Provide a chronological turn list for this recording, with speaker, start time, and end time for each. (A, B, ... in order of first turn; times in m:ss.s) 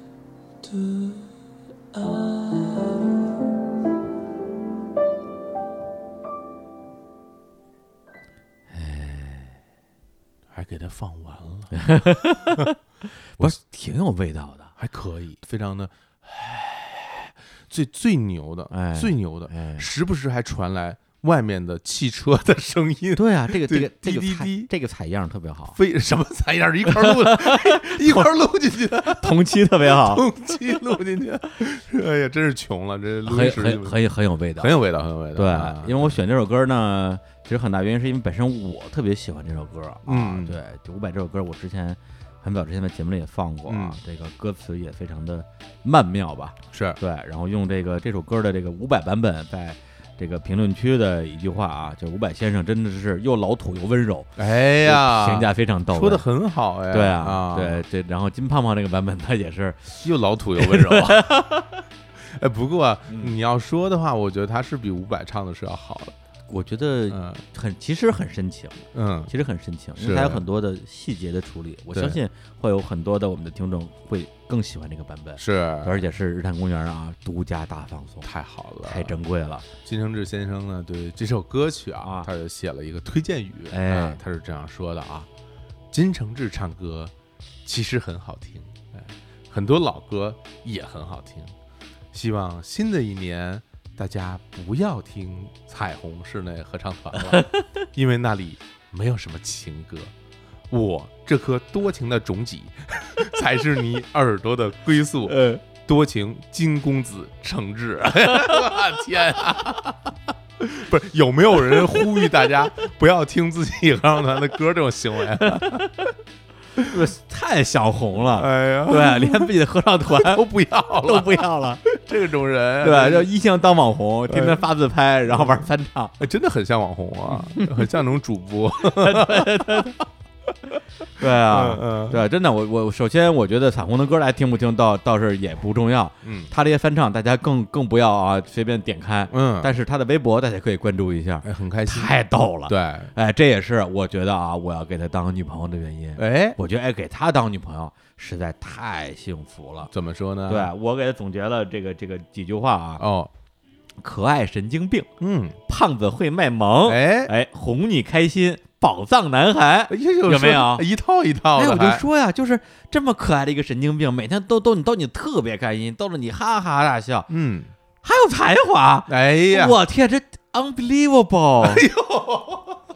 0:00.6-0:01.3 A
0:01.9-0:03.3 A
0:08.7-0:09.6 B
0:10.5-0:11.7 C
0:11.7-0:12.8 B
0:13.4-0:14.7 B
0:14.8-0:24.7 C
0:18.7-0:19.8 B
0:23.1-0:25.8 B
0:25.7-0:34.0 C
0:26.9-0:28.3 B
0:29.0-0:30.3 B
0:33.2-0:34.8 B
0:34.6-0:36.1 C
0:35.3-0:54.3 B
0:40.0-0:40.6 C
0:43.7-0:44.0 C
0:46.7-0:47.0 C
0:54.4-0:57.8 C
0:54.8-0:56.2 B
0:56.9-1:00.0 B
1:00.0-1:01.2 C
1:00.6-1:01.7 B
1:02.3-1:06.1 C
1:03.1-1:03.4 B
1:06.5-1:08.7 B
1:07.1-1:07.4 C
1:08.9-1:09.3 C
1:09.3-1:18.3 B
1:10.0-1:10.4 C
1:11.9-1:12.2 C
1:15.4-1:16.0 C
1:18.2-1:19.2 C
1:18.8-1:19.6 B
1:19.8-1:25.3 C
1:22.0-1:22.3 B
1:23.7-1:24.2 B
1:25.9-1:27.1 C
1:27.6-1:31.5 C
1:32.1-1:40.1 C
1:37.2-1:37.6 B
1:40.7-1:49.9 C
1:45.3-1:45.6 B
1:50.6-1:55.8 C
1:55.5-1:55.8 B
1:56.8-2:01.8 B
1:58.3-1:59.5 C
2:00.2-2:03.3 C
2:02.8-2:06.1 B
2:04.3-2:04.7 C
2:05.3-2:05.6 C
2:06.2-2:09.9 C
2:07.3-2:07.9 B
2:08.8-2:10.0 B
2:11.2-2:29.9 B
2:11.4-2:12.2 C
2:16.2-2:16.5 C
2:19.3-2:19.7 C
2:21.4-2:22.1 C
2:22.7-2:23.1 C
2:26.2-2:26.6 C
2:29.9-2:30.7 C
2:30.5-2:33.0 B
2:33.0-2:33.3 C
2:34.0-2:35.1 B
2:35.2-2:35.6 C
2:35.7-2:40.9 B
2:36.8-2:37.3 C
2:39.9-2:42.0 C
2:41.5-2:47.3 B
2:47.3-2:47.7 C
2:48.0-2:51.8 B
2:49.1-2:49.8 C
2:51.6-2:52.7 C